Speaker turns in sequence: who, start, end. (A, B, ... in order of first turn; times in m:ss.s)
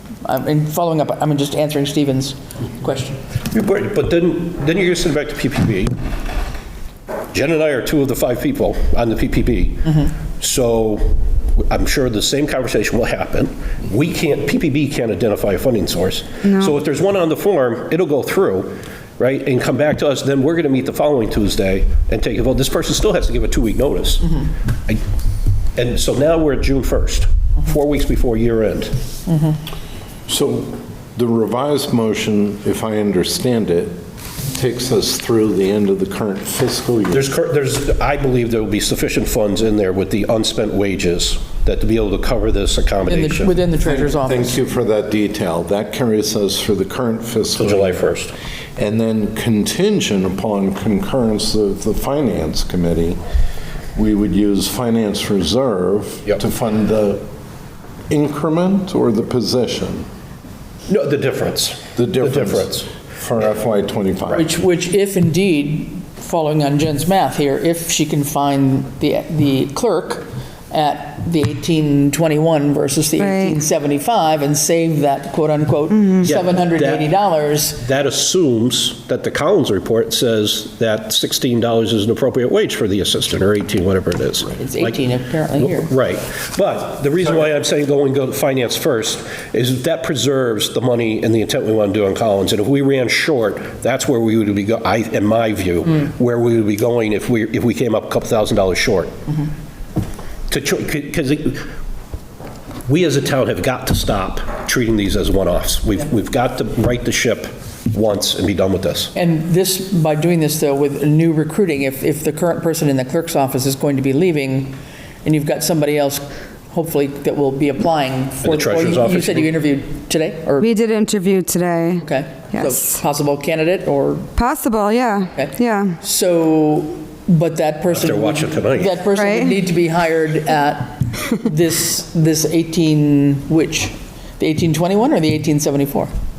0:00.2-0:03.2 A
0:03.5-0:06.0 B
0:07.3-0:25.0 B
0:16.4-0:16.8 C
0:25.8-0:29.0 B
0:30.3-0:34.0 D
0:34.6-0:37.3 D
0:37.1-0:43.5 B
0:43.1-0:44.6 A
0:43.8-0:48.2 D
0:47.6-0:48.3 B
0:48.8-0:53.2 D
0:54.0-0:57.2 D
0:58.1-1:00.1 D
1:00.9-1:02.9 B
1:02.0-1:04.5 D
1:04.3-1:17.8 A
1:13.2-1:13.6 C
1:16.2-1:17.0 B
1:17.8-1:25.0 B
1:24.6-1:25.9 A
1:25.6-1:39.1 B
1:40.5-1:41.6 B
1:42.9-1:49.1 B
1:49.2-2:00.7 A
1:58.4-1:59.5 B
2:00.6-2:03.0 C
2:02.0-2:04.3 A
2:04.4-2:06.0 C
2:05.4-2:16.1 A
2:07.9-2:09.0 B
2:09.2-2:09.6 C